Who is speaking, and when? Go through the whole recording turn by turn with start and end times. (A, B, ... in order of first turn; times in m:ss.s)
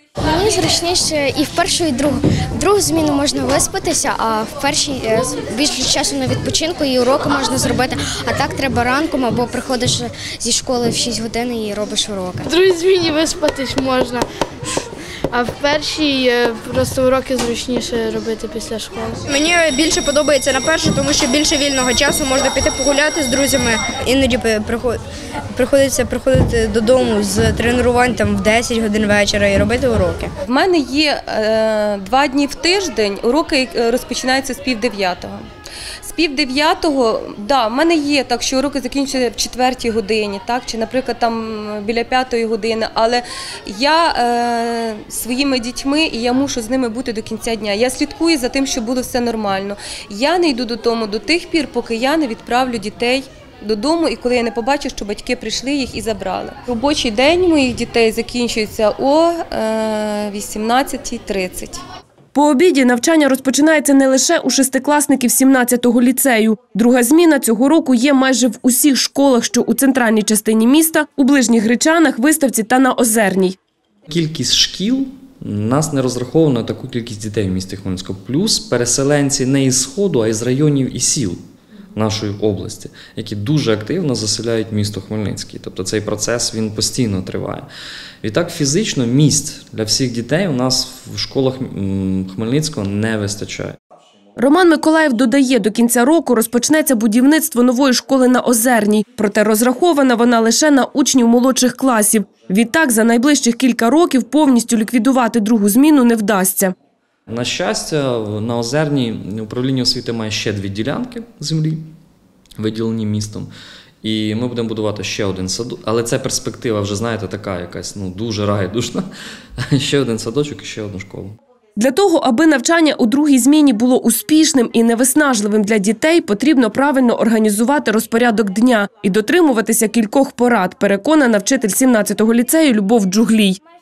0:00.2-0:12.4 A
0:12.4-0:19.2 B
0:19.3-0:25.0 C
0:25.5-0:30.3 C
0:30.4-0:35.4 D
0:36.0-1:01.8 D
1:02.3-1:13.6 E
1:14.1-1:21.4 F
1:21.9-1:27.7 F
1:28.2-1:33.8 F
1:34.4-1:46.7 E
1:47.3-1:51.9 F
1:52.6-1:53.5 F
1:54.0-1:59.1 F
1:59.7-2:01.4 F
2:01.8-2:13.6 E